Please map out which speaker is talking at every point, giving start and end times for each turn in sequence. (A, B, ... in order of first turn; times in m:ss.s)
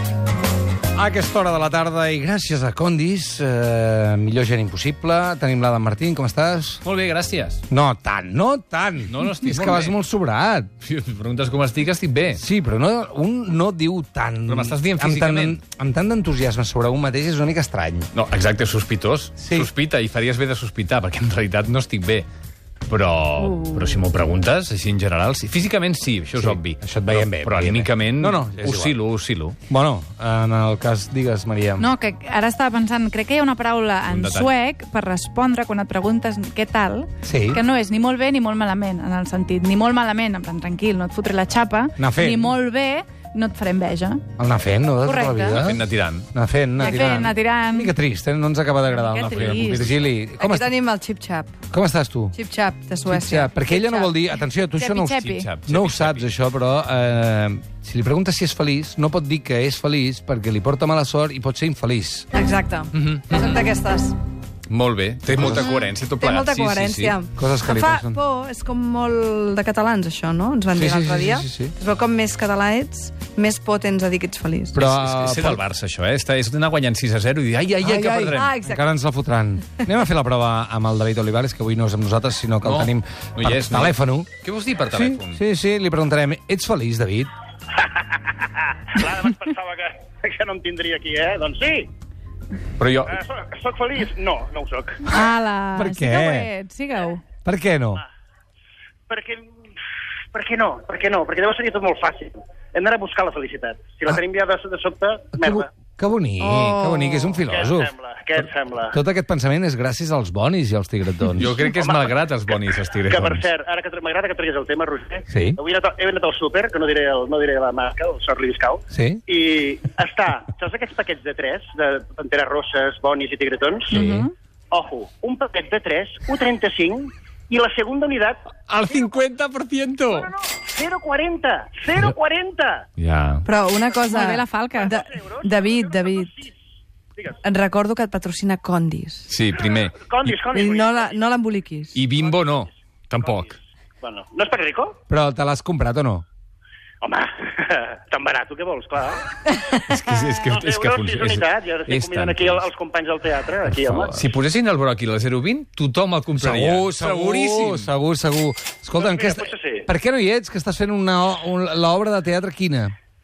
0:01.0-0:06.8 A
0:06.8-0:07.6 B
0:07.7-0:10.7 A
0:09.0-0:09.9 B
0:10.8-0:12.4 B
0:12.4-0:18.1 A
0:14.5-0:15.6 B
0:18.1-0:22.3 B
0:19.4-0:19.7 A
0:22.9-0:29.6 B
0:26.4-0:29.0 A
0:29.7-0:31.9 A
0:31.8-0:44.2 C
0:34.1-0:34.6 B
0:37.2-0:37.6 A
0:42.0-0:42.5 A
0:44.4-0:50.7 A
0:45.0-0:45.6 C
0:45.5-0:46.3 B
0:46.8-0:47.9 C
0:48.9-0:49.8 C
0:49.1-0:50.0 B
0:50.4-0:51.6 D
0:51.7-0:52.3 A
0:52.3-0:53.6 D
0:53.1-1:02.3 A
0:53.6-0:55.5 C
0:55.1-0:56.3 B
1:02.3-1:04.2 D
1:02.9-1:03.6 B
1:04.7-1:07.2 B
1:05.3-1:14.7 D
1:07.4-1:08.2 A
1:10.7-1:11.7 A
1:14.7-1:15.6 A
1:14.8-1:18.5 B
1:17.8-1:18.9 D
1:18.1-1:24.3 A
1:22.6-1:25.4 B
1:24.9-1:27.3 A
1:27.8-1:31.9 E
1:32.8-1:33.2 B
1:33.0-1:35.1 E
1:35.1-1:37.2 C
1:35.7-1:36.5 A
1:37.4-1:38.0 A
1:39.1-1:39.4 E
1:40.3-1:45.6 E
1:45.3-1:47.9 A
1:46.4-1:47.4 D
1:47.4-1:49.0 E
1:48.9-1:51.6 A
1:51.4-1:53.4 B
1:51.6-2:03.9 E
1:55.3-1:55.6 A
1:58.9-1:59.2 A
2:03.9-2:04.3 A
2:04.7-2:08.4 E
2:08.7-2:10.3 B
2:10.1-2:12.8 E
2:13.0-2:13.4 B
2:13.4-2:16.4 D
2:14.1-2:15.0 C
2:14.6-2:16.5 E
2:17.4-2:19.3 D
2:19.3-2:20.4 B
2:20.0-2:21.3 E
2:20.5-2:22.0 D
2:21.9-2:23.6 B
2:22.2-2:22.6 E
2:23.2-2:23.5 E
2:24.0-2:24.9 E
2:25.1-2:26.2 A
2:27.0-2:29.2 E
2:29.9-2:32.6 B
2:30.3-2:34.2 E
2:33.7-2:37.9 B
2:36.4-2:42.9 A
2:39.0-2:39.8 E